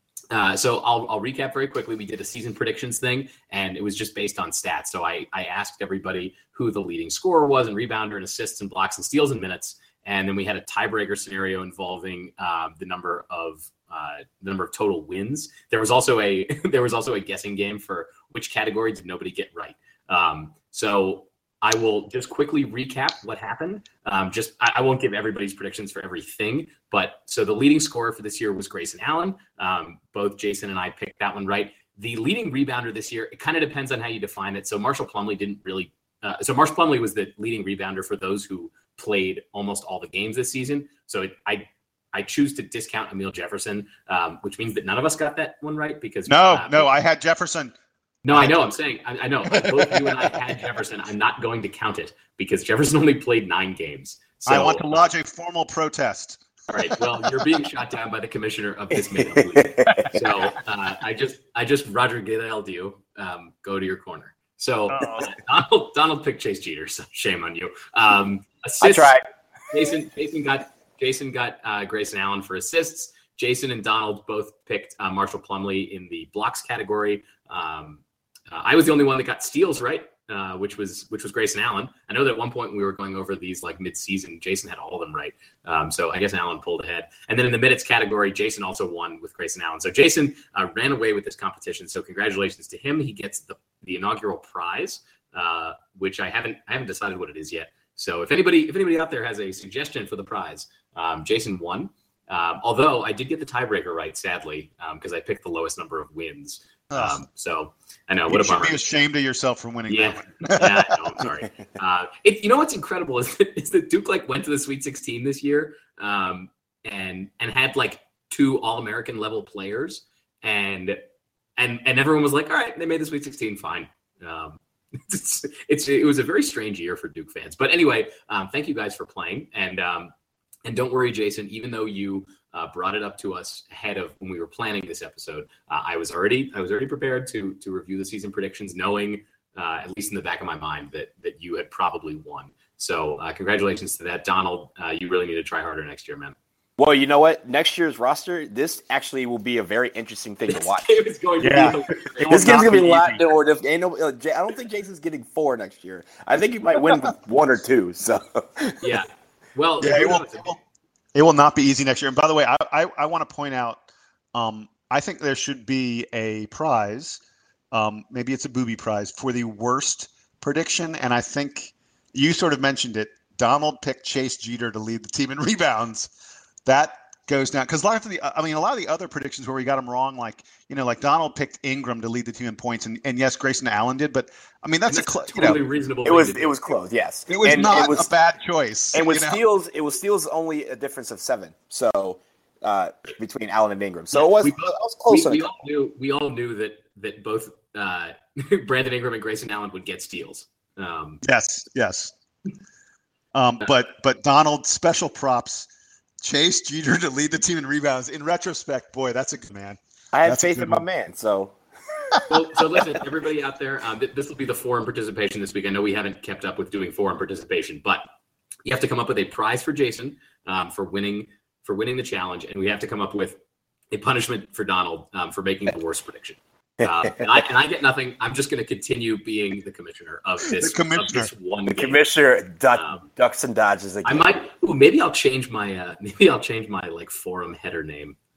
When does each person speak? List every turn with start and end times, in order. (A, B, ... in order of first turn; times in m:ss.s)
0:00.3-0:46.9 A
0:46.3-0:47.7 B
0:48.2-0:55.1 A
0:48.3-0:48.7 B
0:49.5-0:50.1 B
0:54.5-0:57.3 B
0:56.7-1:09.2 A
0:59.4-1:00.1 C
1:04.9-1:05.3 B
1:08.8-1:09.2 C
1:09.7-1:48.8 A
1:46.9-1:47.2 B
1:48.3-1:51.0 B
1:49.9-2:01.0 A
2:01.6-2:10.1 A
2:10.6-2:26.4 A
2:26.8-2:30.9 C
2:30.5-2:32.9 A
2:31.4-2:33.2 B
2:32.3-2:39.0 C
2:38.8-2:40.5 A
2:39.8-2:40.6 B
2:41.1-2:43.8 B
2:44.3-2:47.2 B
2:47.7-2:56.1 B
2:56.6-3:05.6 B
3:04.9-3:06.5 A
3:06.0-3:08.1 C
3:07.3-3:09.4 B
3:08.9-3:15.5 C
3:14.1-3:21.2 A
3:21.2-3:22.1 B
3:23.3-3:25.7 B
3:26.2-3:30.8 B
3:30.1-3:31.6 C
3:32.3-3:38.0 A
3:38.6-3:43.4 A
3:43.9-3:52.0 A
3:50.6-3:51.3 B
3:51.6-3:54.4 C
3:52.7-3:53.1 A
3:54.0-3:58.2 A